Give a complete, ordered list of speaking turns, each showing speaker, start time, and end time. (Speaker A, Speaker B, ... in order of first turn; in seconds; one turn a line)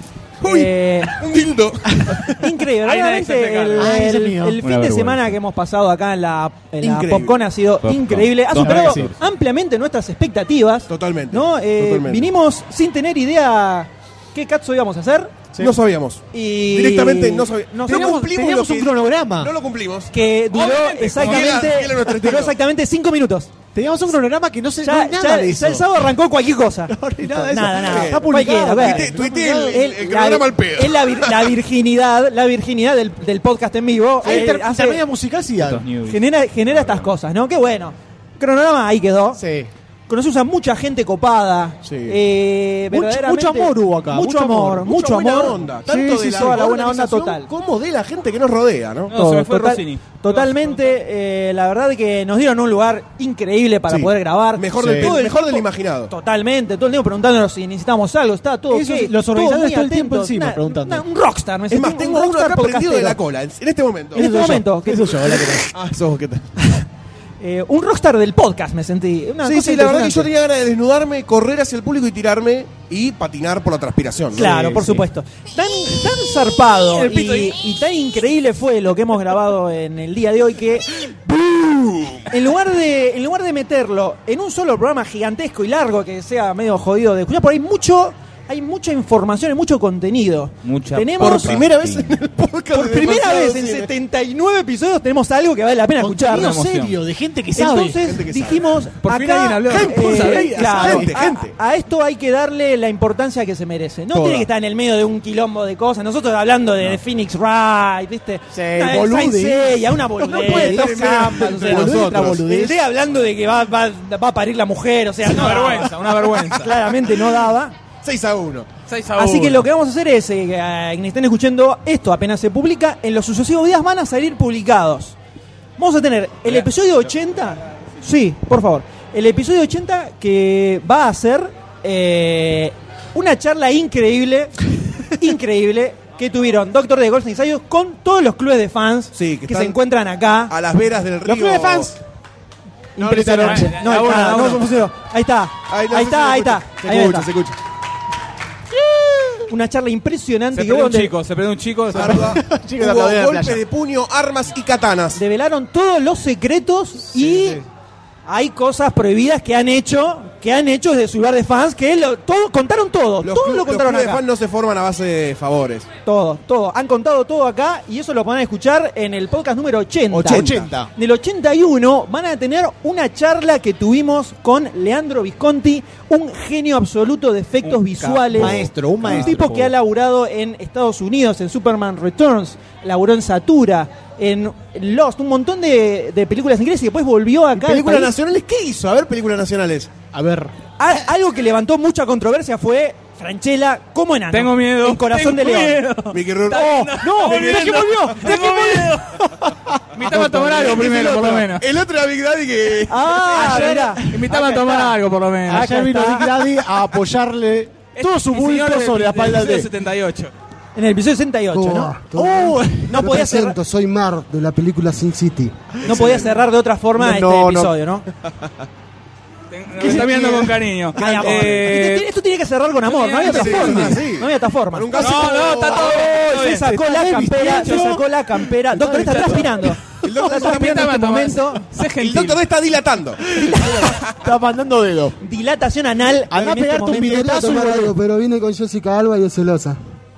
Speaker A: 0.4-1.2
Speaker B: 0.4-2.4
Speaker C: 1.9-2.2
Speaker A: 2.4-15.3
Speaker D: 2.8-4.0
Speaker C: 3.8-4.6
Speaker D: 4.6-5.3
Speaker B: 6.8-7.4
Speaker D: 7.8-9.2
Speaker C: 8.6-9.1
Speaker B: 10.9-12.3
Speaker B: 15.6-20.1
Speaker A: 16.3-18.3
Speaker C: 17.9-19.5
Speaker A: 20.1-23.5
Speaker D: 20.5-21.5
Speaker B: 20.9-22.5
Speaker C: 23.7-25.9
Speaker A: 24.8-35.0
Speaker C: 26.9-29.8
Speaker B: 27.7-31.5
Speaker C: 34.2-35.8
Speaker D: 35.6-37.1
Speaker A: 36.1-39.4
Speaker C: 39.4-39.7
Speaker A: 40.1-47.5
Speaker C: 41.9-42.1
Speaker C: 42.9-44.9
Speaker B: 44.8-49.1
Speaker C: 45.9-46.7
Speaker D: 49.1-50.9
Speaker A: 49.1-63.2
Speaker B: 53.9-56.1
Speaker C: 54.7-55.2
Speaker C: 58.7-61.0
Speaker B: 61.7-64.3
Speaker A: 64.2-65.6
Speaker C: 64.2-65.7
Speaker B: 65.7-66.5
Speaker A: 67.4-70.3
Speaker B: 69.4-74.9
Speaker A: 74.3-80.9
Speaker C: 74.5-75.0
Speaker D: 77.0-77.6
Speaker B: 81.2-82.3
Speaker A: 82.3-91.6
Speaker D: 90.6-92.2
Speaker B: 91.2-93.9
Speaker A: 92.7-96.6
Speaker C: 96.0-98.1
Speaker D: 96.3-97.0
Speaker A: 97.5-117.7
Speaker B: 98.0-98.7
Speaker D: 99.0-100.7
Speaker B: 99.7-101.5
Speaker C: 100.6-101.2
Speaker B: 104.1-104.5
Speaker C: 108.5-112.8
Speaker B: 110.3-112.4
Speaker D: 115.3-116.7
Speaker B: 118.0-118.7
Speaker D: 118.9-119.7
Speaker A: 119.2-125.2
Speaker A: 125.8-140.5
Speaker B: 139.1-139.8
Speaker B: 140.5-141.9
Speaker C: 141.2-142.0
Speaker A: 143.0-147.3
Speaker C: 143.0-143.7
Speaker B: 143.1-143.5
Speaker D: 143.4-144.7
Speaker B: 145.7-147.6
Speaker C: 148.8-149.3
Speaker A: 149.5-151.1
Speaker D: 150.5-152.4
Speaker C: 151.9-153.6
Speaker B: 151.9-155.2
Speaker A: 155.2-157.6
Speaker C: 157.1-157.6
Speaker A: 158.3-164.2
Speaker B: 163.2-165.9
Speaker A: 166.1-188.1
Speaker B: 170.1-170.7
Speaker C: 170.2-170.9
Speaker D: 177.6-179.6
Speaker C: 178.3-179.7
Speaker B: 187.5-189.9
Speaker C: 190.1-190.5
Speaker A: 190.8-195.9
Speaker D: 194.3-199.4
Speaker B: 196.1-197.8
Speaker A: 196.6-198.8
Speaker C: 197.0-200.7
Speaker D: 199.9-201.7
Speaker B: 200.1-203.7
Speaker A: 202.9-204.9
Speaker C: 203.3-204.3
Speaker D: 203.4-205.7
Speaker C: 205.5-209.7
Speaker A: 205.5-206.3
Speaker D: 207.9-210.3
Speaker A: 210.8-212.0
Speaker E: 211.5-215.7
Speaker C: 212.1-213.2
Speaker A: 212.9-213.6
Speaker B: 215.8-216.3
Speaker A: 215.8-218.1
Speaker C: 217.0-217.7
Speaker D: 219.5-222.1
Speaker C: 219.8-220.5
Speaker B: 219.8-220.4
Speaker A: 220.9-231.7
Speaker B: 221.1-221.5
Speaker C: 221.1-221.4
Speaker D: 222.9-223.9
Speaker B: 223.2-226.0
Speaker C: 223.5-224.0
Speaker D: 224.9-226.7
Speaker C: 226.6-228.1
Speaker D: 227.4-228.0
Speaker C: 228.7-229.6
Speaker D: 228.8-229.7
Speaker B: 230.0-230.9
Speaker D: 230.3-232.4
Speaker B: 232.0-234.2
Speaker A: 233.3-233.9
Speaker C: 233.5-235.2
Speaker A: 235.2-237.6
Speaker C: 236.3-237.9
Speaker E: 236.9-239.8